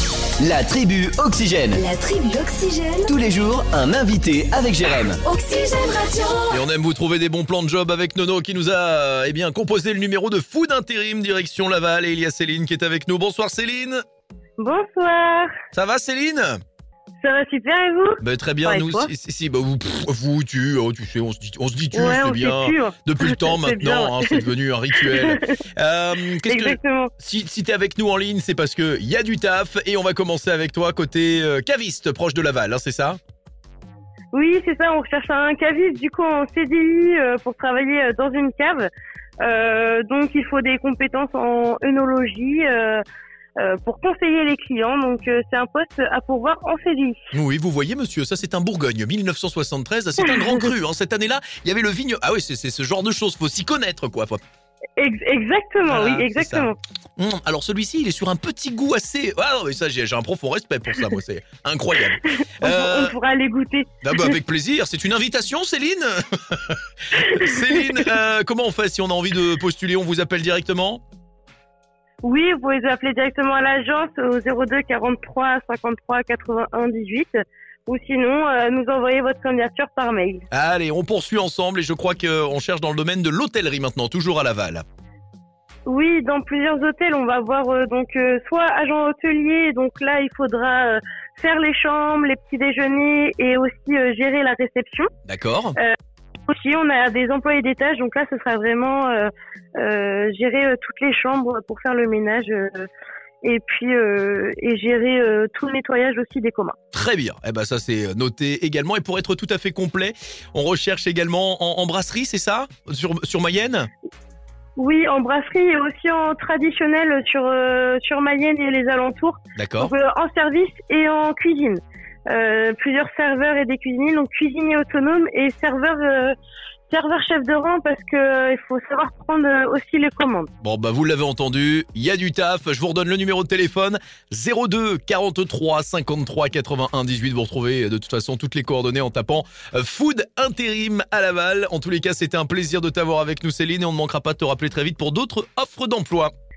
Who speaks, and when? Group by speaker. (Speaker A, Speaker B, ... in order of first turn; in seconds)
Speaker A: 0.4-1.8, 3.1-5.2
Speaker B: 1.8-3.1, 5.2-6.6
Speaker C: 6.5-14.0, 15.7-16.6, 18.2-33.2, 47.3-54.4, 55.9-63.1, 64.0-71.0, 80.5-84.8, 95.3-95.8, 106.9-113.9, 119.6-119.9, 130.6-146.3
Speaker D: 14.6-15.5, 17.2-19.1, 21.9-25.6, 26.4-27.1, 34.3-38.9, 39.4-43.0, 43.6-47.2, 55.0-56.8, 62.6-64.4, 67.2-68.1, 72.2-80.4, 85.9-95.1, 96.5-102.9, 103.4-106.8, 114.8-126.3, 126.9-130.5